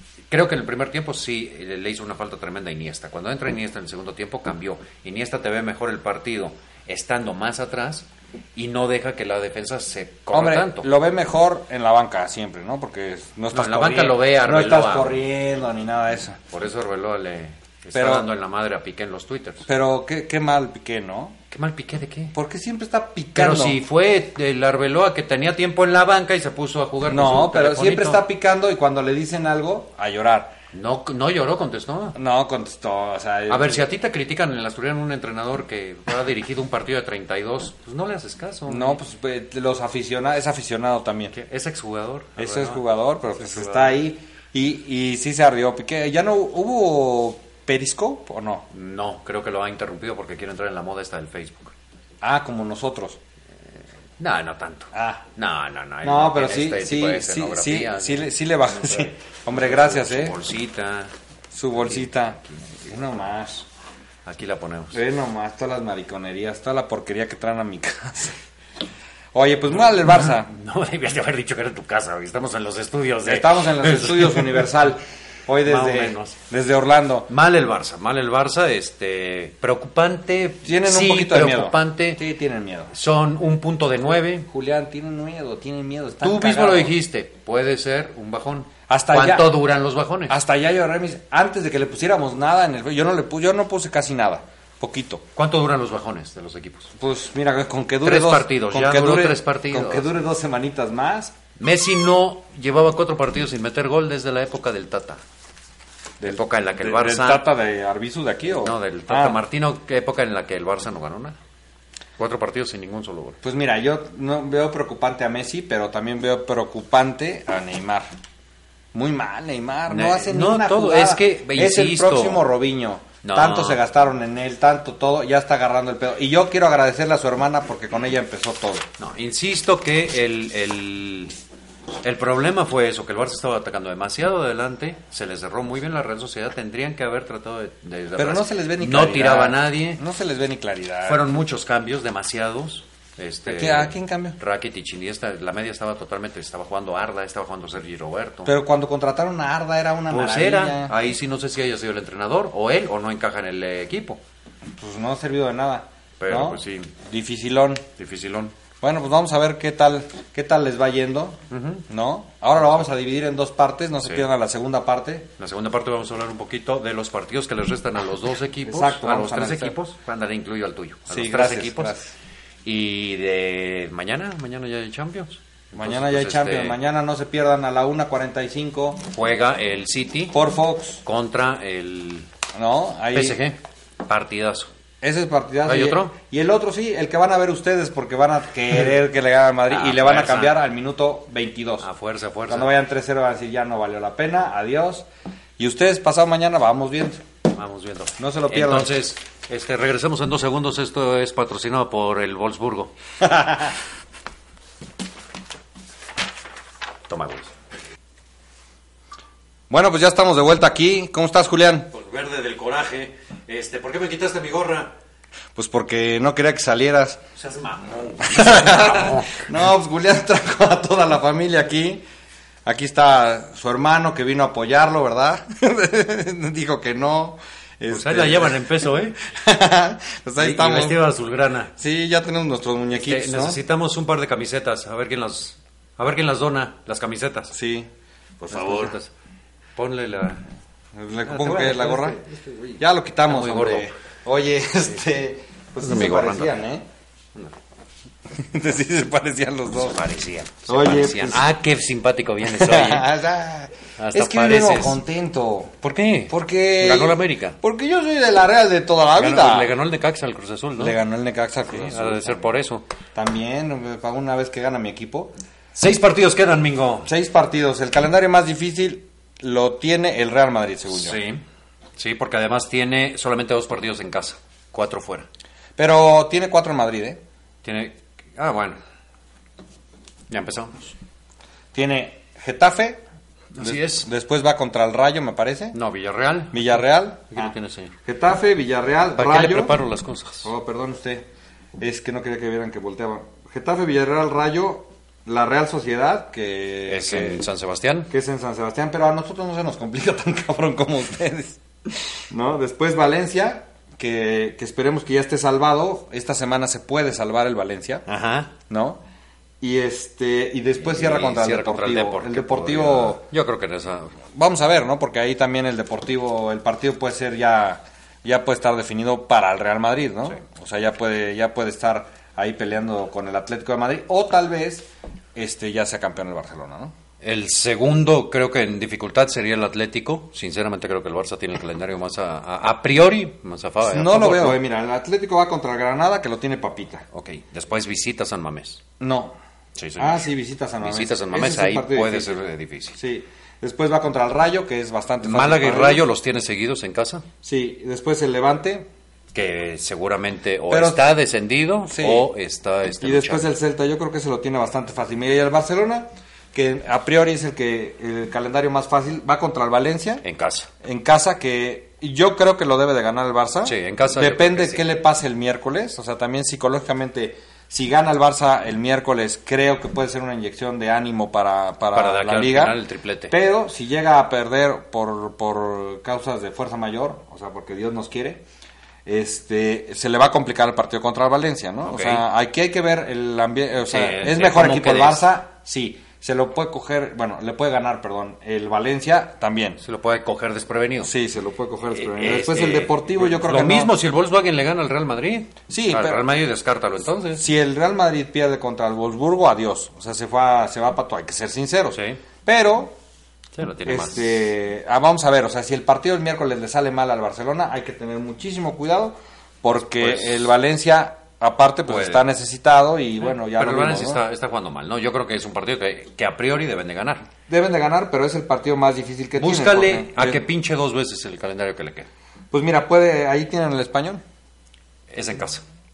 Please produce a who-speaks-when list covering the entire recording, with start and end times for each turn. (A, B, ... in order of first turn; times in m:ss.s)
0:00.3-0:10.9 A
0:10.3-0:16.4 B
0:13.5-0:15.2 A
0:16.5-0:19.7 A
0:17.9-0:18.3 B
0:19.7-0:21.4 B
0:21.5-0:22.3 A
0:22.3-0:23.8 B
0:23.3-0:28.2 A
0:27.1-0:30.6 B
0:30.7-0:32.2 A
0:32.2-0:33.8 B
0:33.5-0:39.0 A
0:38.7-0:41.3 B
0:41.3-0:44.0 A
0:42.4-0:48.7 B
0:48.7-0:51.7 A
0:52.2-0:53.2 B
0:54.2-0:58.3 A
0:54.9-0:55.2 B
0:56.0-1:00.4 B
0:59.5-1:01.1 A
1:01.5-1:03.6 B
1:01.7-1:02.9 A
1:04.2-1:05.0 A
1:04.9-1:08.4 B
1:09.3-1:10.5 B
1:10.1-1:14.7 A
1:13.2-1:17.3 B
1:15.6-1:16.4 A
1:17.3-1:22.2 A
1:20.6-1:22.9 B
1:22.9-1:24.5 A
1:24.5-1:26.9 B
1:26.2-1:30.4 A
1:28.9-1:29.6 B
1:30.3-1:35.2 B
1:35.3-1:36.9 A
1:37.0-1:41.3 B
1:38.0-1:40.1 A
1:41.6-1:45.2 A
1:46.2-1:49.4 B
1:46.2-1:47.4 A
1:48.6-1:51.4 A
1:52.2-1:53.4 A
1:53.4-1:58.1 B
1:58.9-2:08.8 B
1:59.9-2:02.4 A
2:03.2-2:03.8 A
2:09.0-2:11.4 A
2:12.0-2:20.0 A
2:18.2-2:21.2 B
2:21.0-2:28.5 A
2:23.4-2:24.4 B
2:28.4-2:30.9 B
2:30.1-2:34.2 A
2:34.8-2:37.8 B
2:36.2-2:36.9 A
2:38.0-2:38.5 A
2:38.8-2:45.3 B
2:41.5-2:41.8 A
2:44.0-2:44.3 A
2:45.4-2:52.0 A
2:48.6-2:49.8 B
2:51.1-2:52.1 B
2:52.6-2:56.8 A
2:55.7-2:59.0 B
2:59.1-3:00.4 A
3:00.3-3:01.0 B
3:01.0-3:02.3 A
3:02.5-3:03.4 B
3:03.1-3:04.7 A
3:05.0-3:11.9 B
3:05.6-3:06.1 A
3:09.7-3:10.6 A
3:11.8-3:12.7 A
3:12.5-3:15.1 B
3:15.6-3:17.2 B
3:17.5-3:22.9 A
3:18.2-3:19.0 B
3:23.2-3:23.7 B
3:27.1-3:27.5 A
3:29.7-3:31.9 B
3:31.9-3:34.9 A
3:35.5-3:37.2 B
3:37.4-3:39.5 A
3:38.2-3:42.0 B
3:42.6-3:51.0 B
3:47.9-3:49.2 A
3:50.4-3:51.7 A
3:51.8-3:53.6 B
3:52.9-3:57.5 A
3:57.5-3:58.9 B
3:58.5-3:59.1 A
3:59.8-4:00.4 A
4:00.9-4:06.8 B
4:01.2-4:03.9 A
4:05.8-4:06.6 A
4:08.3-4:10.0 B
4:09.8-4:13.1 A
4:10.7-4:11.5 B
4:12.4-4:15.8 B
4:14.0-4:15.0 A
4:15.8-4:17.6 A
4:16.3-4:19.7 B
4:19.2-4:21.0 A
4:20.8-4:22.5 B
4:21.7-4:22.8 A
4:23.1-4:25.3 B
4:25.7-4:27.1 A
4:27.0-4:31.2 B
4:30.9-4:31.4 A
4:32.0-4:35.3 A
4:35.8-4:37.2 B
4:37.6-4:38.8 A
4:40.3-4:40.9 A
4:41.7-4:43.0 B
4:43.5-4:44.1 A
4:43.6-4:45.8 B
4:45.7-4:47.9 A
4:46.5-4:47.5 B
4:48.0-4:49.8 B
4:49.2-4:50.5 A
4:50.4-4:57.4 B
4:56.9-4:58.1 A
4:58.1-5:08.0 B
5:08.1-5:08.5 A
5:08.7-5:09.0 B
5:09.6-5:13.2 B
5:10.8-5:14.2 A
5:14.3-5:26.9 B
5:27.2-5:34.6 A
5:33.8-5:37.0 B
5:37.1-5:38.8 A
5:39.0-5:39.4 B
5:39.8-5:40.3 A
5:40.0-5:42.4 B
5:40.8-5:43.0 A
5:43.0-5:46.0 B
5:45.2-5:47.2 A
5:47.4-5:48.9 B
5:49.3-5:53.5 A
5:50.7-5:51.0 B
5:51.9-5:52.3 B
5:53.0-6:00.2 B
6:00.2-6:00.7 A
6:00.8-6:18.4 B
6:03.6-6:04.8 A
6:11.9-6:13.3 A
6:19.0-6:29.8 B
6:21.8-6:22.2 A
6:23.8-6:25.3 A
6:29.8-6:31.1 A
6:31.0-6:33.9 B
6:31.9-6:37.4 A
6:35.7-6:36.2 B
6:37.3-6:43.0 B
6:41.9-6:42.2 A
6:43.5-6:44.4 A
6:43.8-6:54.2 B
6:49.7-6:50.5 A
6:51.8-6:52.2 A
6:53.2-6:57.3 A
6:57.5-7:00.4 B
6:59.4-7:02.1 A
7:02.5-7:04.2 B
7:05.1-7:05.6 A